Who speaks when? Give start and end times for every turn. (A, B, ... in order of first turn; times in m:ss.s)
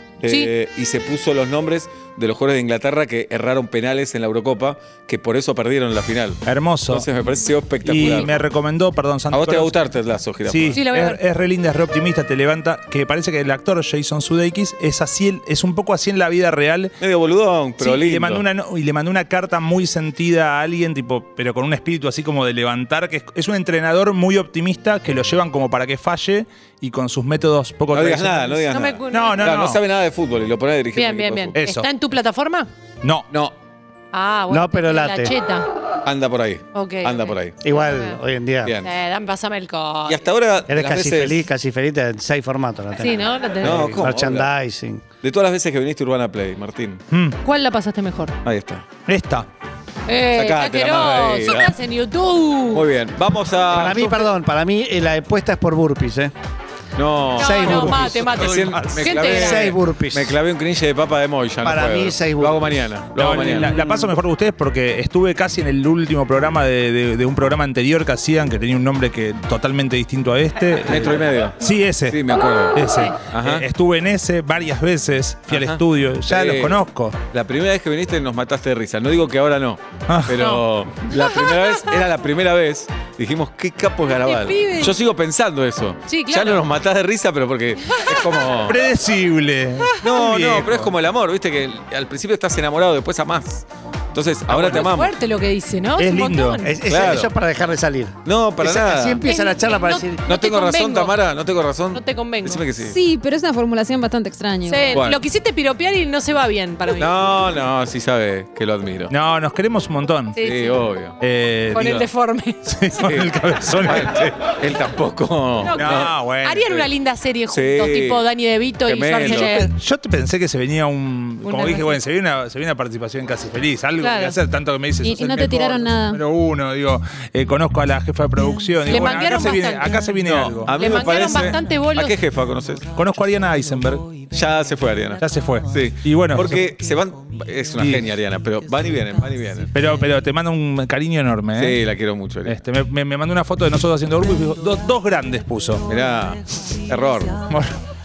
0:00.2-0:08.4 A
0:00.3-0:00.5 B
0:06.4-0:07.1 C
0:07.8-0:09.7 C
0:09.3-0:10.8 A
0:10.4-0:16.9 C
0:10.7-0:11.2 B
0:17.0-0:18.4 A
0:17.8-0:29.8 C
0:27.9-0:31.6 A
0:28.7-0:29.6 B
0:30.9-0:32.7 B
0:31.5-0:31.9 C
0:33.0-0:33.3 C
0:34.1-0:35.7 B
0:34.5-0:35.3 D
0:36.0-0:37.6 A
0:36.7-0:38.2 B
0:37.6-0:38.8 D
0:38.6-0:38.9 A
0:38.8-0:40.2 B
0:40.1-0:41.5 A
0:40.7-0:45.0 D
0:43.0-0:43.9 B
0:43.6-0:44.5 A
0:45.2-0:47.0 A
0:47.1-0:47.4 C
0:47.4-0:48.3 B
0:48.4-0:48.8 A
0:49.1-0:49.5 C
0:50.1-0:52.8 B
0:50.3-0:51.7 A
0:52.7-0:54.3 A
0:53.7-0:56.3 D
0:57.0-1:03.8 A
0:57.4-0:58.2 D
0:57.4-0:59.7 B
0:58.3-0:59.1 C
0:59.1-1:00.4 D
1:01.6-1:02.8 D
1:03.2-1:17.2 C
1:10.9-1:13.7 A
1:15.5-1:28.8 A
1:20.1-1:20.5 C
1:20.4-1:21.9 B
1:24.1-1:25.0 B
1:26.1-1:26.6 B
1:27.9-1:28.2 B
1:28.6-1:30.9 C
1:30.0-1:35.1 A
1:34.5-1:36.7 B
1:36.0-1:36.6 C
1:36.6-1:40.2 D
1:36.9-1:37.3 A
1:38.2-1:39.2 A
1:39.2-1:41.1 B
1:40.3-1:43.0 A
1:41.9-1:42.6 B
1:42.8-1:45.0 E
1:44.6-1:47.1 B
1:44.9-1:45.2 A
1:47.0-1:49.1 A
1:49.1-1:50.4 C
1:50.4-1:50.8 B
1:50.4-1:51.2 A
1:51.2-1:52.1 C
1:51.7-1:52.6 B
1:52.6-1:54.2 C
1:53.0-1:56.1 A
1:55.6-1:59.7 B
1:55.8-1:56.7 C
1:57.5-1:58.2 A
1:58.8-1:59.6 A
1:59.2-2:10.8 C
2:01.4-2:02.0 B
2:04.0-2:04.4 B
2:05.0-2:06.2 E
2:08.9-2:10.0 B
2:10.2-2:12.9 A
2:10.7-2:12.1 B
2:13.0-2:14.1 C
2:14.3-2:19.7 A
2:15.2-2:16.6 C
2:17.8-2:18.0 C
2:19.7-2:21.8 C
2:21.6-2:22.6 A
2:22.4-2:25.8 C
2:25.9-2:27.4 A
2:27.4-2:27.7 C